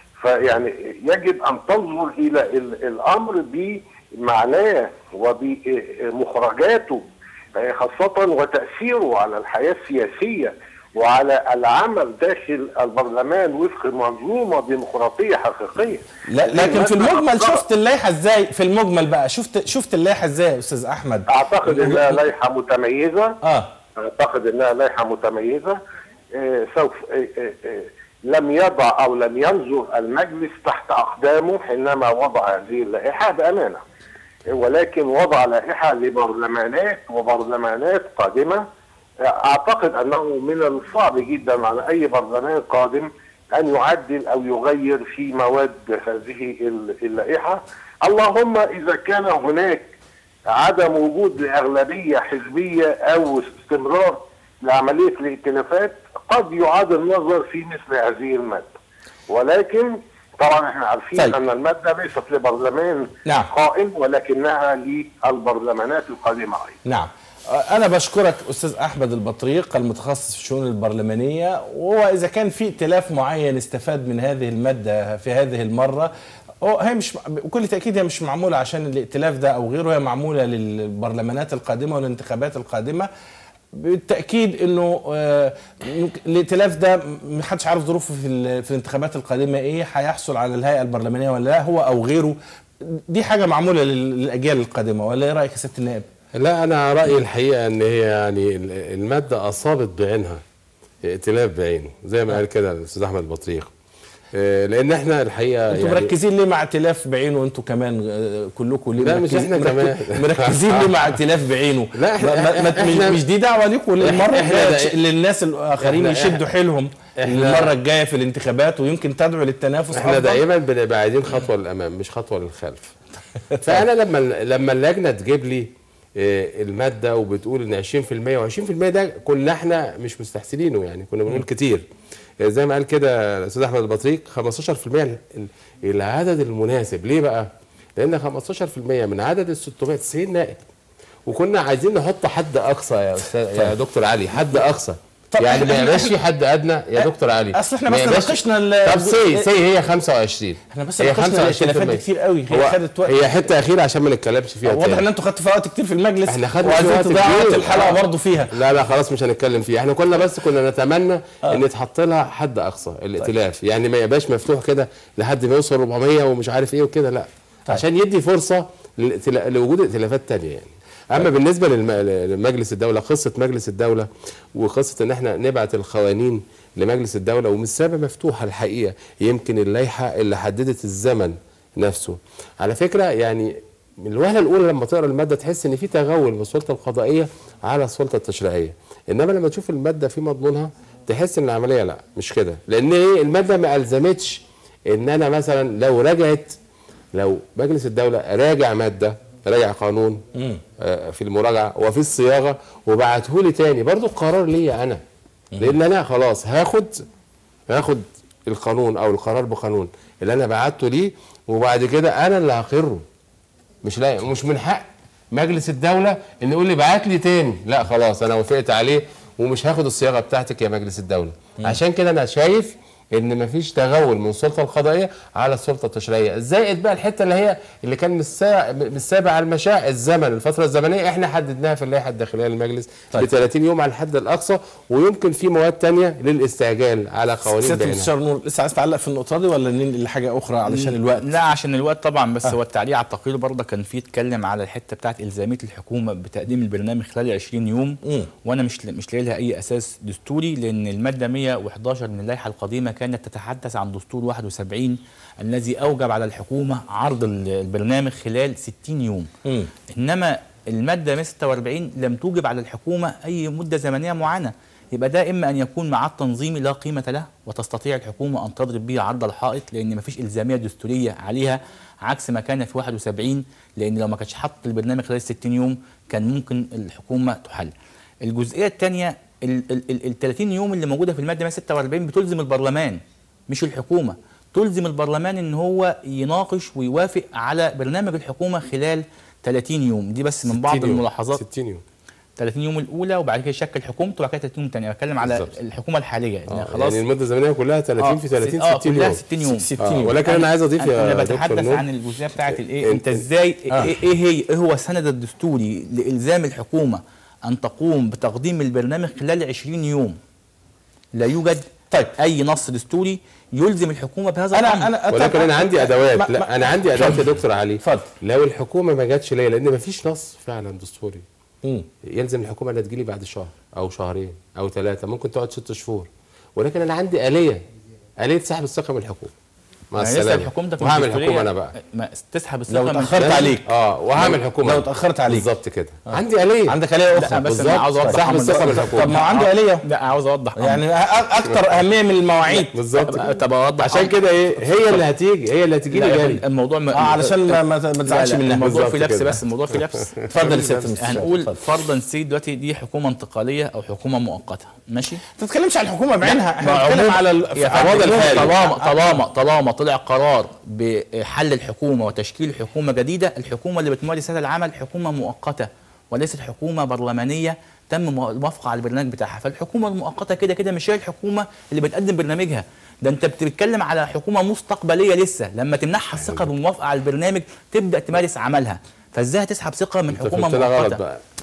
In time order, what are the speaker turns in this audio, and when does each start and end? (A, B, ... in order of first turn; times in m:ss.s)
0:00.2-0:07.0 A
0:07.6-0:17.6 A
0:16.3-0:22.2 B
0:21.3-0:23.4 A
0:23.4-0:23.7 B
0:24.0-0:25.8 A
0:26.4-0:33.8 A
0:34.5-0:38.6 A
0:39.2-0:49.9 A
0:50.5-0:58.7 A
0:59.3-1:06.8 A
1:06.8-1:23.1 B
1:23.7-1:36.1 B
1:36.3-1:40.4 C
1:41.0-1:43.7 C
1:44.3-1:46.1 C
1:45.7-2:00.4 B
1:49.0-1:51.0 C
1:52.0-1:53.2 C
1:54.0-1:55.0 C
1:55.9-1:56.4 C
1:57.2-1:57.7 C
1:59.9-2:02.8 C
2:03.6-2:11.8 C
2:12.4-2:17.5 C
2:18.0-2:20.6 C
2:21.3-2:35.1 C
2:25.3-2:26.2 B
2:27.0-2:29.5 B
2:30.7-2:33.3 B
2:34.6-2:38.6 B
2:36.3-2:38.0 C
2:38.5-3:16.5 C
3:17.2-3:20.2 C
3:20.4-3:20.6 B
3:20.8-3:25.0 C
3:25.6-3:26.9 C
3:27.7-3:33.0 C
3:33.8-3:58.1 C
3:57.5-4:01.4 B
4:00.7-4:19.3 D
4:08.0-4:08.3 B
4:19.4-4:19.7 B
4:19.9-4:37.7 D
4:38.2-4:51.4 D
4:50.5-4:51.8 C
4:52.4-4:57.0 D
4:56.5-4:59.2 C
4:58.0-4:59.7 D
4:59.5-5:00.2 B
4:59.8-5:01.8 C
5:00.2-5:10.2 D
5:02.8-5:03.1 C
5:03.7-5:04.0 B
5:11.1-5:14.9 D
5:11.9-5:12.2 B
5:14.5-5:18.1 B
5:15.1-5:21.2 C
5:21.6-5:21.9 B
5:22.0-5:27.6 C
5:28.2-5:29.3 C
5:29.9-5:31.7 C
5:30.0-5:33.5 D
5:32.7-5:35.5 B
5:33.2-5:36.8 C
5:36.1-5:39.9 B
5:37.2-5:40.8 D
5:37.4-5:39.1 C
5:40.6-5:42.8 B
5:42.5-5:44.2 D
5:42.7-5:43.2 C
5:43.8-5:46.4 C
5:45.9-5:55.2 D
5:46.9-5:48.8 B
5:48.6-5:49.4 C
5:50.3-5:50.7 C
5:50.3-5:51.6 B
5:55.4-5:59.2 B
5:56.2-6:21.0 D
5:57.8-5:58.4 C
6:20.1-6:21.2 C